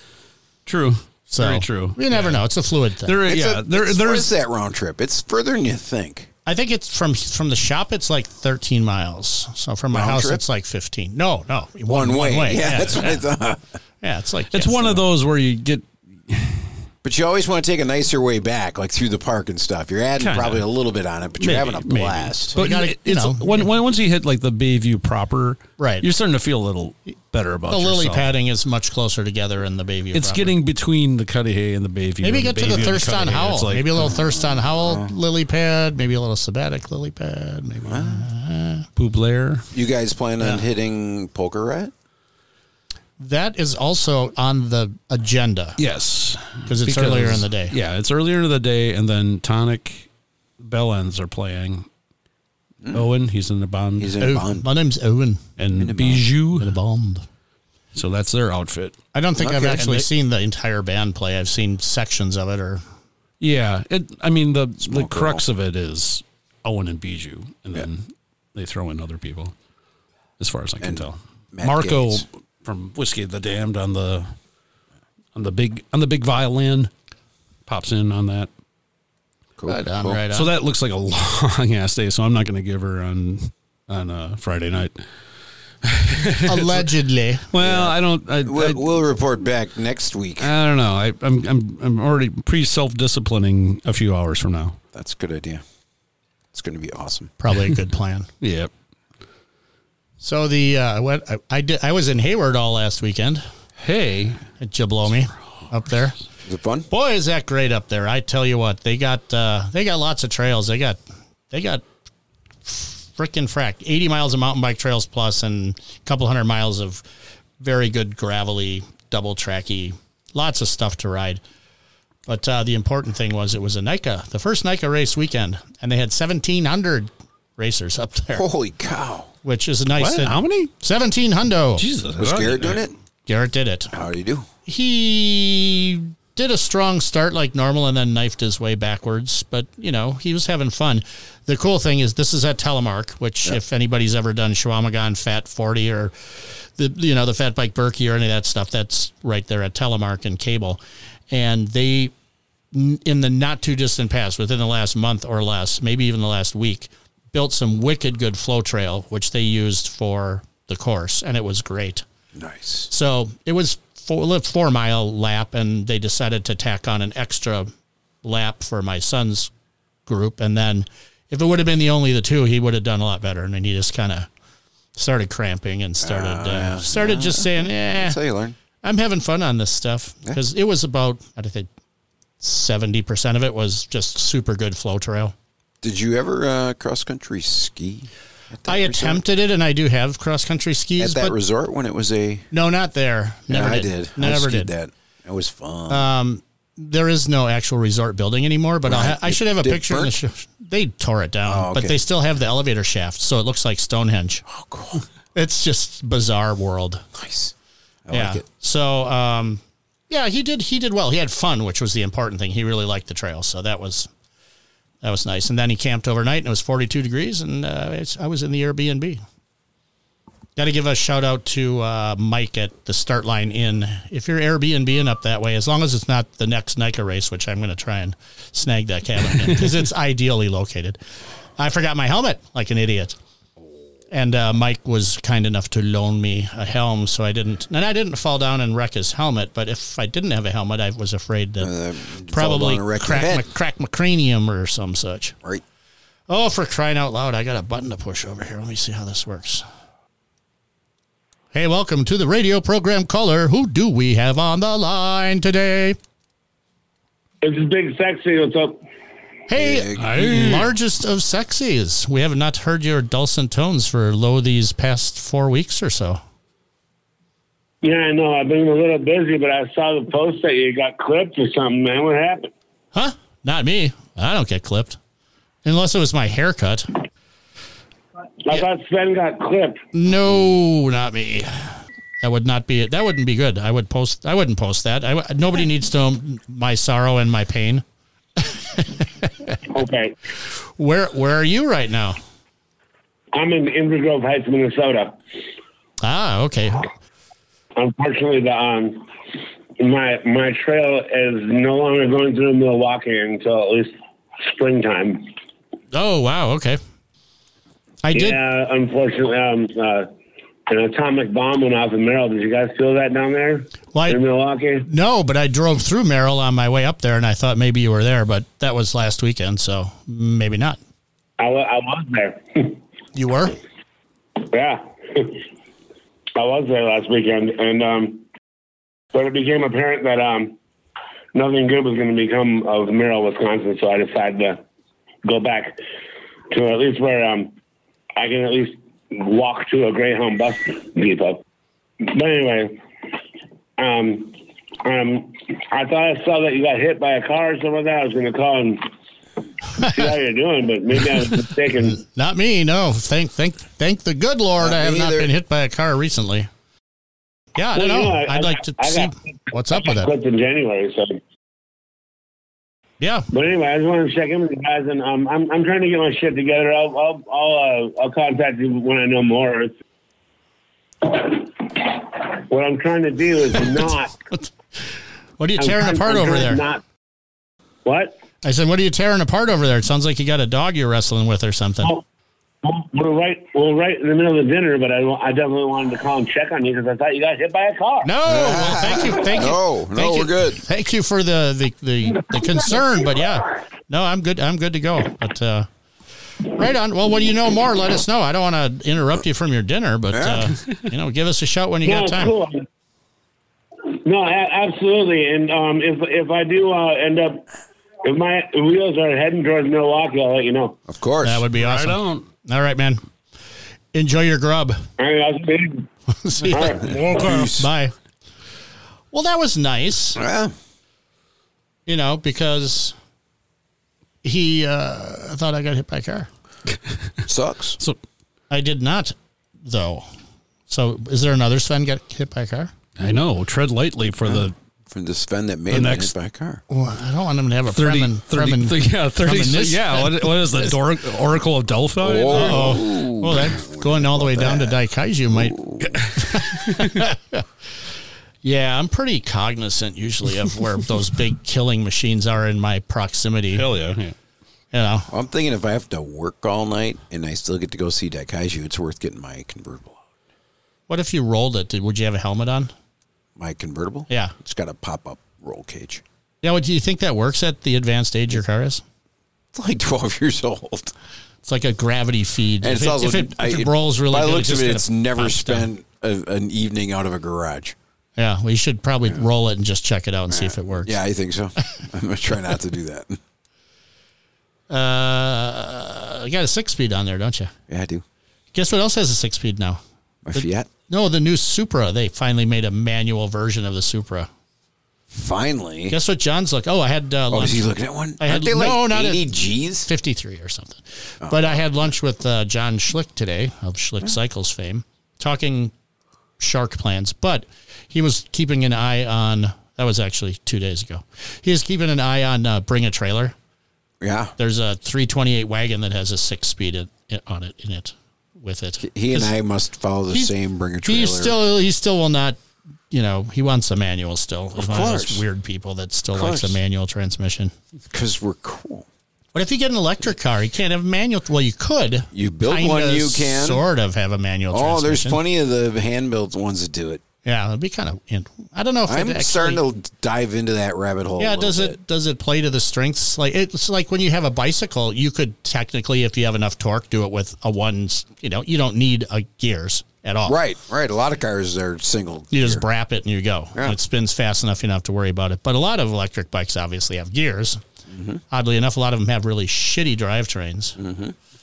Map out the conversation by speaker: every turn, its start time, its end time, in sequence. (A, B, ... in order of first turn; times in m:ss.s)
0:00.6-0:02.4 A
0:01.3-0:03.2 B
0:03.0-0:04.3 A
0:03.3-0:06.3 C
0:06.4-0:13.2 B
0:09.9-0:10.4 C
0:11.9-0:13.6 C
0:14.0-0:15.0 B
0:14.5-0:16.7 A
0:17.0-0:22.6 C
0:20.2-0:20.6 A
0:21.4-0:28.2 A
0:22.6-0:23.7 B
0:25.8-0:26.0 B
0:27.7-0:30.5 B
0:30.1-0:34.1 A
0:32.2-0:38.9 B
0:34.2-0:35.1 C
0:37.9-0:38.2 C
0:39.0-0:39.7 A
0:39.7-0:41.9 C
0:43.2-0:45.8 B
0:45.8-0:50.1 A
0:46.7-0:47.7 B
0:50.6-0:51.9 A
0:52.9-0:54.2 A
0:54.0-0:54.7 C
0:54.2-0:55.4 B
0:55.6-0:56.7 A
0:55.8-0:56.2 C
0:56.6-0:57.2 B
0:57.9-0:59.0 A
0:59.1-1:02.8 B
0:59.4-1:00.0 C
1:03.4-1:09.5 A
1:04.8-1:05.4 C
1:10.4-1:14.3 A
1:10.8-1:12.2 C
1:15.3-1:16.9 A
1:17.6-1:18.5 A
1:19.6-1:20.2 C
1:19.7-1:20.5 B
1:20.3-1:25.0 A
1:25.8-1:26.9 A
1:26.4-1:27.5 B
1:27.5-1:28.8 A
1:27.6-1:30.5 C
1:30.4-1:34.8 A
1:34.9-1:35.6 C
1:36.5-1:37.3 C
1:37.4-1:38.3 B
1:38.4-1:38.7 A
1:40.2-1:43.4 B
1:43.8-1:44.4 A
1:44.6-1:46.2 B
1:46.4-1:46.9 C
1:46.9-1:51.0 B
1:51.5-1:51.8 B
1:52.6-1:57.0 B
1:57.6-2:01.4 B
2:02.3-2:08.4 B
2:08.3-2:09.3 C
2:09.4-2:11.8 B
2:09.9-2:10.7 A
2:11.8-2:12.9 A
2:12.2-2:12.9 C
2:13.2-2:13.9 B
2:13.9-2:14.4 C
2:14.6-2:32.1 B
2:32.7-2:42.0 B
2:42.3-2:42.9 C
2:42.9-2:47.7 B
2:48.2-2:49.5 B
2:50.0-2:54.3 B
2:55.0-2:58.2 B
2:56.0-2:58.6 C
2:58.8-3:01.7 B
3:02.4-3:05.3 B
3:05.8-3:09.2 C
3:08.6-3:11.4 B
3:11.0-3:12.5 C
3:12.5-3:14.7 B
3:13.5-3:16.1 C
3:15.9-3:24.4 B
3:18.8-3:20.1 C
3:21.4-3:22.0 C
3:24.5-3:25.0 C
3:25.3-3:27.0 B
3:27.1-3:27.5 C
3:28.1-3:28.4 C
3:28.1-3:34.1 B
3:35.0-3:39.2 B
3:40.6-3:51.0 B
3:51.6-3:53.2 B
3:54.1-4:01.7 B
4:01.6-4:03.5 C
4:02.3-4:05.3 B
4:06.3-4:09.6 B
4:11.5-4:16.0 B
4:17.4-4:18.8 D
4:19.5-4:26.2 B
4:19.6-4:20.1 C
4:20.0-4:20.7 A
4:27.8-4:32.5 D
4:32.9-4:35.0 B
4:35.6-4:36.9 B
4:38.4-4:39.8 D
4:39.9-4:47.8 B
4:48.4-4:49.5 B
4:49.7-4:50.1 D
4:50.5-4:52.2 B
4:53.3-4:55.2 D
4:56.0-4:56.9 B
4:57.8-4:59.1 D
4:59.8-5:05.3 D
5:05.9-5:06.8 B
5:08.0-5:08.4 B
5:08.1-5:10.1 D
5:10.7-5:14.9 D
5:13.9-5:14.2 B
5:14.9-5:20.8 B
5:21.4-5:22.8 D
5:23.1-5:23.6 B
5:24.4-5:25.4 D
5:26.4-5:28.2 D
5:29.1-5:30.6 D
5:31.3-5:34.6 D
5:35.2-5:35.8 D
5:36.5-5:37.5 D
5:38.2-5:41.4 D
5:42.0-5:42.8 D
5:43.8-5:48.9 D
5:49.6-5:52.0 D
5:51.8-5:56.5 B
5:54.6-5:55.3 C
5:57.6-6:00.1 B
5:57.7-6:01.2 D
6:03.0-6:03.3 B
6:03.3-6:09.7 D
6:11.0-6:14.2 D
6:15.4-6:16.6 B
6:15.6-6:16.8 D
6:17.8-6:18.2 D
6:18.4-6:22.0 B
6:22.6-6:28.1 D
6:28.0-6:35.7 B
6:28.2-6:30.6 C
6:36.4-6:42.3 B
6:40.1-6:40.5 C
6:41.8-6:42.6 D
6:43.9-6:47.4 D
6:48.0-6:50.8 D
6:50.9-6:51.4 C
6:51.2-6:53.0 B
6:51.6-6:52.3 A
6:53.9-6:54.8 B
6:55.0-6:55.9 D
6:56.1-6:57.9 B
6:56.5-6:57.7 C
6:56.5-6:57.3 D
6:59.1-7:00.2 B
7:00.1-7:00.5 C
7:01.8-7:03.0 B
7:04.2-7:06.3 B
7:07.2-7:07.8 C
7:08.5-7:10.0 B
7:10.7-7:12.7 B
7:13.0-7:14.5 A
7:14.2-7:16.6 C
7:15.7-7:16.1 A
7:16.7-7:20.7 B
7:17.7-7:22.8 A
7:22.0-7:24.8 C
7:22.3-7:25.6 B
7:25.3-7:26.0 C
7:26.1-7:27.4 B
7:28.4-7:33.6 B
7:33.5-7:34.1 A
7:34.7-7:35.1 B
7:35.1-7:40.0 C
7:40.9-7:42.7 B
7:43.4-7:46.0 C
7:44.1-7:44.3 B
7:46.4-7:48.8 B
7:49.5-7:50.9 C
7:51.4-7:55.7 B
7:52.6-7:57.7 C
7:58.2-8:01.0 B
8:00.3-8:03.2 C
8:04.7-8:07.5 B
8:07.7-8:08.0 C
8:08.5-8:09.8 B
8:10.2-8:10.7 C
8:10.3-8:14.3 B
8:15.1-8:16.0 C
8:15.9-8:19.3 B
8:17.3-8:19.9 C
8:19.8-8:25.7 B
8:21.2-8:21.6 C
8:26.4-8:33.3 B
8:34.0-8:34.3 C
8:34.4-8:39.3 B
8:38.8-8:41.4 C
8:40.1-8:42.4 B
8:42.9-8:47.5 B
8:44.6-8:45.2 C
8:46.1-8:46.6 C
8:47.9-8:48.8 C
8:49.3-8:55.2 B
8:52.1-8:53.6 C
8:54.5-8:57.0 C
8:57.2-8:59.6 B
8:58.9-9:01.8 C
9:01.2-9:10.4 B
9:10.2-9:12.6 C
9:12.3-9:17.6 B
9:17.9-9:18.2 C
9:18.3-9:20.8 B
9:20.8-9:21.1 C